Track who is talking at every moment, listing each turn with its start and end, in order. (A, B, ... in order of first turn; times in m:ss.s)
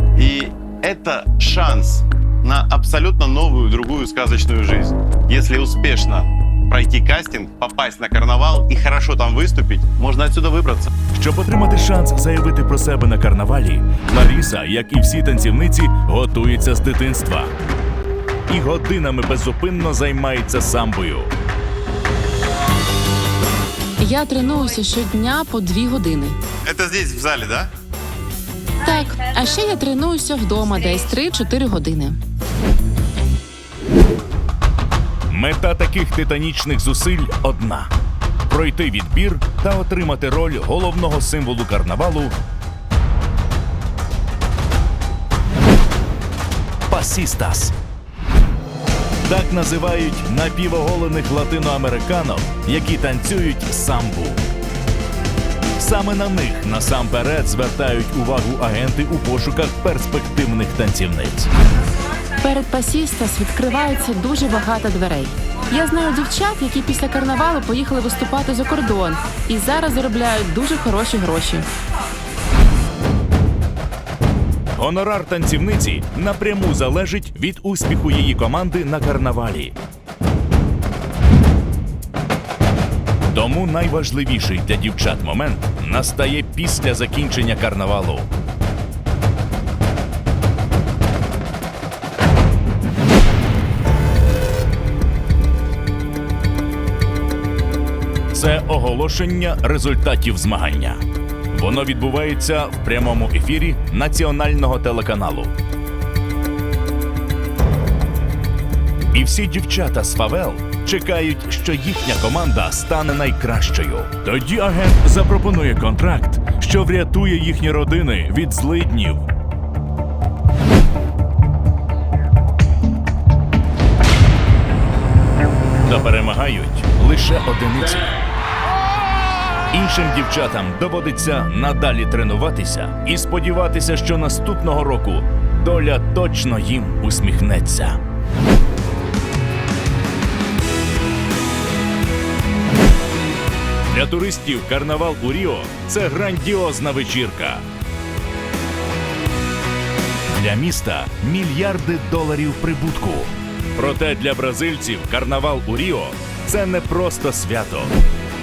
0:00.1-0:10.9 A
0:11.1-0:17.5 B
0:18.5-0:21.3 B
0:24.0-0:26.4 C
0:26.6-0:27.7 A
0:28.8-0:32.2 C
0:35.3-0:37.9 B
0:38.5-0:42.4 B
0:46.9-0:47.7 B
0:49.2-0:54.4 B
0:55.8-1:01.5 B
1:02.4-1:11.7 C
1:14.8-1:19.8 B
1:23.3-1:28.3 B
1:38.3-1:45.5 B
1:49.1-1:59.3 B
2:05.8-2:08.1 B
2:09.7-2:18.0 B
2:23.9-2:27.6 B
2:30.3-2:38.0 B